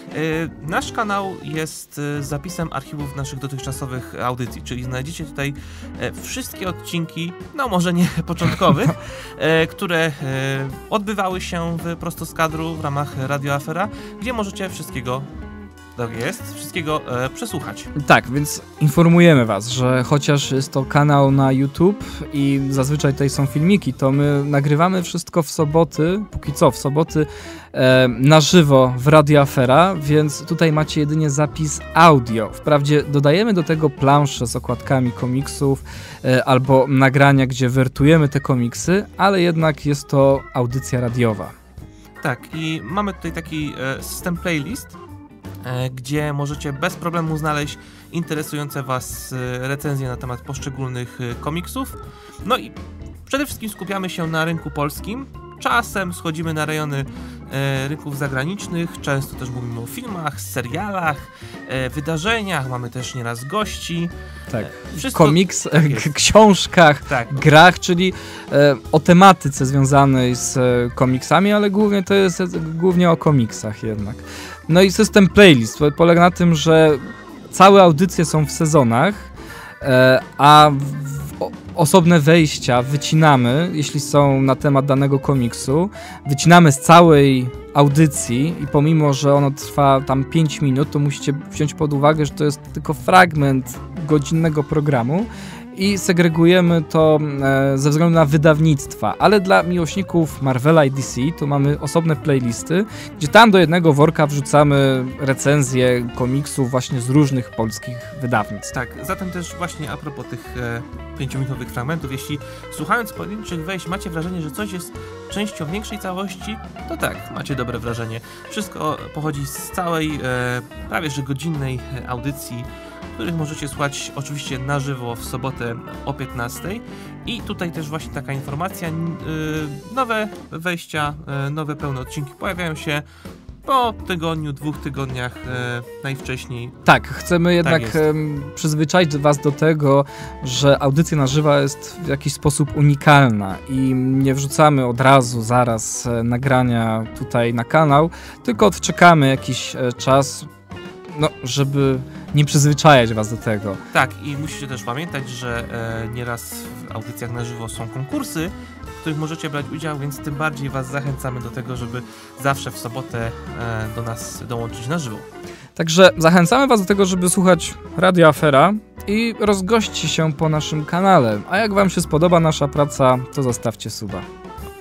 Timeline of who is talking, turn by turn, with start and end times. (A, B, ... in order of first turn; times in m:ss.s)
0:00.1-0:15.3 A
0:16.0-0:17.9 A
0:18.0-0:41.5 B
0:42.2-0:45.0 A
0:45.6-1:06.1 A
1:04.5-1:48.7 B
1:07.1-1:07.5 A
1:48.7-2:13.1 A
2:13.6-2:16.8 A
2:16.8-2:30.5 B
2:17.6-2:18.0 A
2:31.1-2:33.8 B
2:33.9-2:45.3 A
2:45.8-2:54.3 B